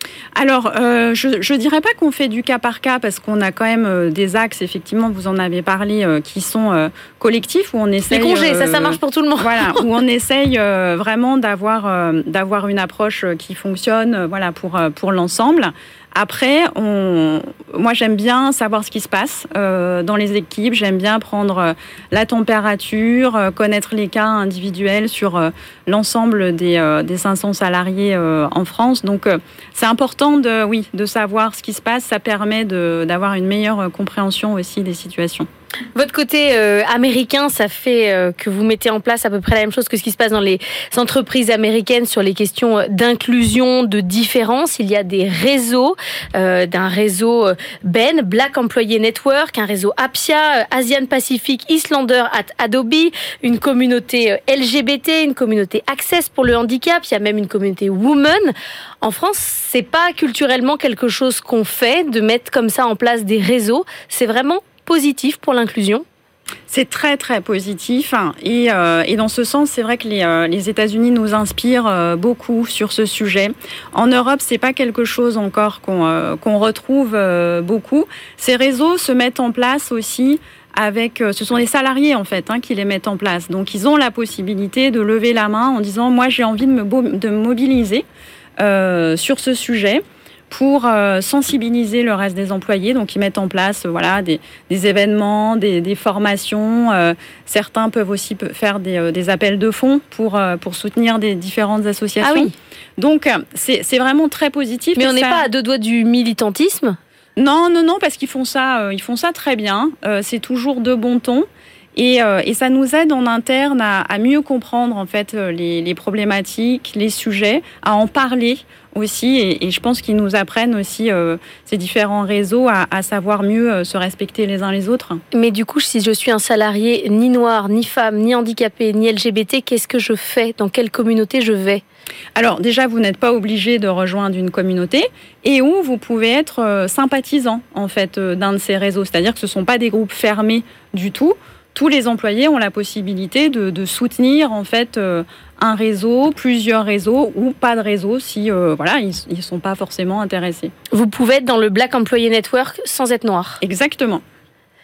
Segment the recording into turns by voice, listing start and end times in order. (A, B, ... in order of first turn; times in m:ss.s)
0:00.3-0:35.5 A
0:08.1-0:09.8 B
0:35.9-1:06.0 B
1:06.7-1:28.0 A
1:28.6-1:45.4 A
1:42.2-1:42.5 B
1:45.0-1:47.0 B
1:47.4-2:05.2 A
2:05.3-2:11.8 B
2:12.4-2:30.7 A
2:30.9-2:33.6 B
2:33.6-2:34.2 A